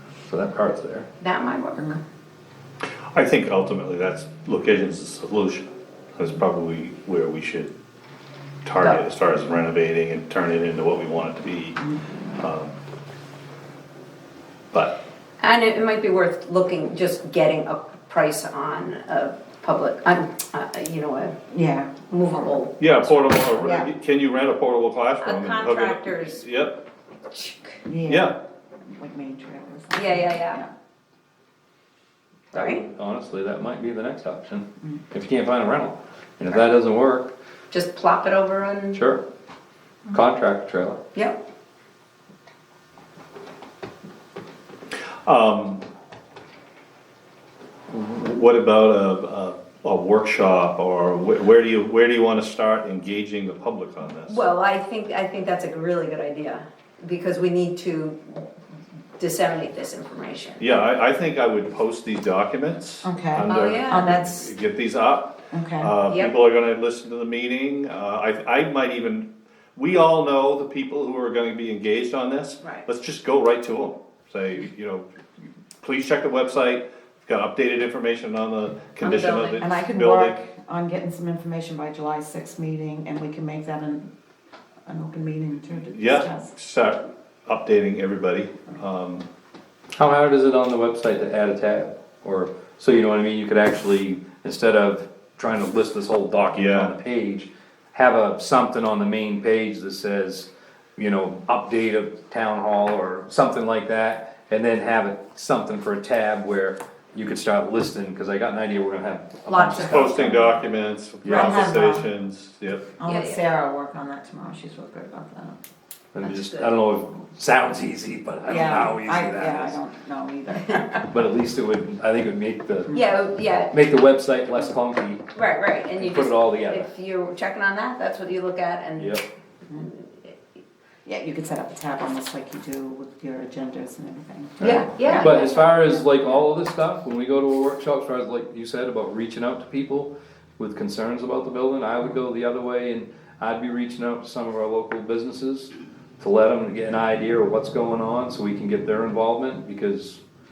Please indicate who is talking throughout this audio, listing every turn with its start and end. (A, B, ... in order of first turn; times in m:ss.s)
0:00.3-0:01.1 A
0:01.2-0:02.0 B
0:03.1-0:07.7 C
0:08.6-0:11.8 C
0:11.8-0:12.3 D
0:12.4-0:12.8 C
0:14.7-0:15.0 C
0:15.4-0:21.4 B
0:21.5-0:22.6 D
0:22.1-0:23.8 B
0:22.8-0:26.8 C
0:23.6-0:23.9 D
0:25.2-0:26.5 B
0:27.3-0:27.8 B
0:27.8-0:28.3 D
0:28.1-0:28.3 C
0:28.9-0:30.7 D
0:29.9-0:30.6 B
0:32.5-0:32.8 B
0:32.5-0:37.4 A
0:37.7-0:39.0 B
0:38.9-0:39.2 A
0:40.1-0:41.0 A
0:45.2-0:45.8 C
0:47.9-0:54.5 C
0:54.3-0:58.5 B
0:59.2-1:00.6 B
1:00.6-1:15.1 C
1:03.0-1:04.3 D
1:03.5-1:04.4 B
1:05.5-1:05.9 D
1:06.1-1:06.3 B
1:15.8-1:20.4 C
1:19.0-1:19.8 B
1:19.6-1:24.1 D
1:24.9-1:26.5 D
1:25.9-1:29.3 C
1:29.9-1:50.7 A
1:36.6-1:36.9 C
1:49.5-1:50.1 B
1:49.8-1:52.9 C
1:51.2-1:51.8 A
1:51.3-1:52.1 D
1:53.0-1:55.6 D
1:53.0-1:53.4 B
1:56.1-1:59.8 A
1:56.2-1:56.7 B
1:58.4-2:01.2 D
2:01.1-2:03.0 A
2:02.9-2:03.7 B
2:03.7-2:05.3 A
2:05.3-2:09.2 B
2:06.0-2:06.9 A
2:09.0-2:09.2 A
2:09.8-2:10.3 B
2:11.0-2:16.4 D
2:14.6-2:15.9 B
2:14.6-2:30.2 A